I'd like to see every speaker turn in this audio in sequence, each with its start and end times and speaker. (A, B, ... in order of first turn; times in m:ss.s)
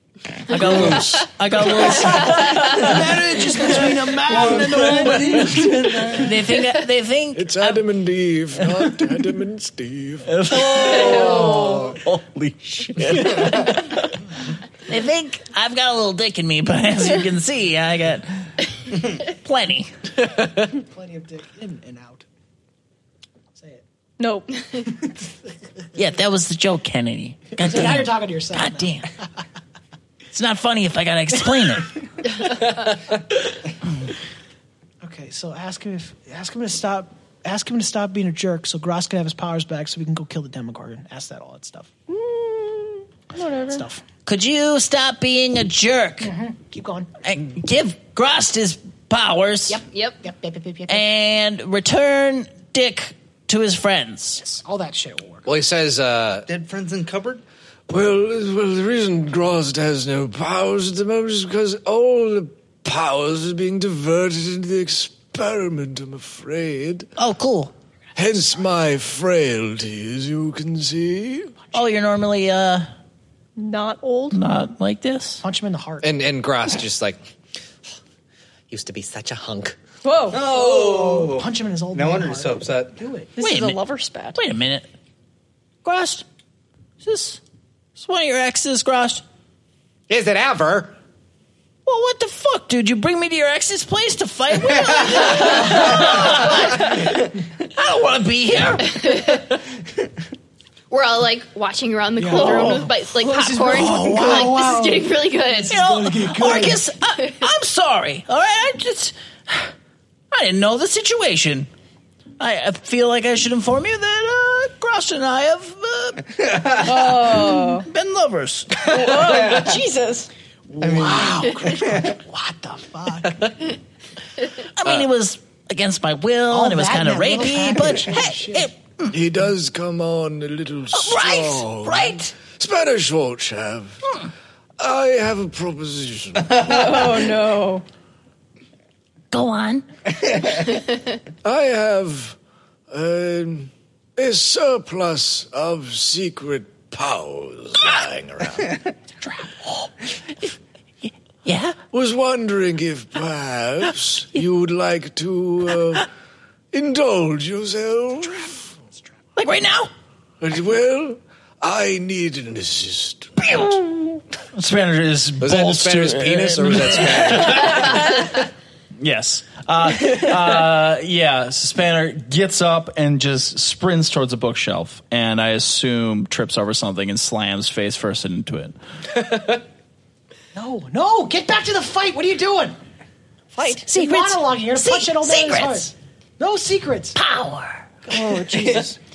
0:00.5-0:03.8 A
0:00.5-0:03.0 B
0:02.6-0:06.2 C
0:04.3-0:05.2 D
0:04.6-0:06.0 E
0:05.0-0:05.6 B
0:06.1-0:07.8 A
0:07.3-0:11.7 B
0:10.2-0:13.8 E
0:10.5-0:11.5 A
0:13.0-0:13.9 A
0:14.9-0:19.9 A
0:20.5-0:22.2 C
0:23.5-0:23.8 C
0:24.2-0:24.8 F
0:25.9-0:29.1 A
0:27.6-0:28.9 C
0:30.3-0:32.0 A
0:35.0-0:41.9 C
0:42.1-0:43.8 F
0:43.7-0:44.0 C
0:44.2-0:46.3 A
0:46.2-0:47.1 C
0:47.2-0:49.8 A
0:49.7-0:51.0 C
0:50.9-0:54.4 A
0:54.4-0:55.4 C
0:55.4-0:56.5 G
0:56.5-0:57.4 D
0:57.9-1:07.1 B
1:07.2-1:07.7 A
1:08.1-1:11.5 B
1:11.7-1:12.9 A
1:13.6-1:14.4 F
1:14.3-1:15.4 A
1:15.4-1:16.1 C
1:16.0-1:17.2 G
1:18.7-1:19.8 G
1:20.0-1:20.5 F
1:20.3-1:23.0 D
1:20.5-1:23.3 C
1:23.4-1:24.4 F
1:23.4-1:23.8 A
1:24.3-1:24.9 A
1:25.8-1:26.2 A
1:27.0-1:27.4 A
1:28.0-1:29.2 A
1:30.1-1:31.0 G
1:31.8-1:39.4 A
1:35.6-1:36.1 C
1:39.0-1:39.4 H
1:40.9-1:45.8 H
1:42.2-1:46.8 C
1:42.3-1:42.8 A
1:43.8-1:44.6 A
1:45.7-1:49.7 A
1:50.3-1:51.7 A
1:52.4-1:58.9 A
1:56.4-1:56.8 D
1:56.8-1:57.9 F
1:58.8-2:00.3 F
1:58.9-1:59.8 D
2:00.7-2:03.5 C
2:00.8-2:02.2 D
2:04.8-2:09.2 A
2:04.8-2:05.1 G
2:06.5-2:08.7 C
2:09.1-2:14.0 B
2:10.9-2:12.3 A
2:14.8-2:16.5 B
2:16.4-2:17.3 D
2:16.6-2:17.8 F
2:19.3-2:19.8 A
2:20.2-2:20.6 D
2:21.4-2:22.4 B
2:22.9-2:28.8 B
2:31.0-2:31.8 A
2:31.9-2:36.1 B
2:36.7-2:38.7 B
2:39.4-2:39.9 A
2:40.4-2:43.6 B
2:44.5-2:48.2 E
2:45.4-2:48.0 G
2:49.0-2:58.8 E
3:00.5-3:02.8 C
3:03.6-3:03.9 F
3:03.8-3:07.2 C
3:03.8-3:05.9 A
3:07.1-3:08.2 A
3:08.2-3:08.8 C
3:08.3-3:08.8 F
3:08.5-3:08.9 D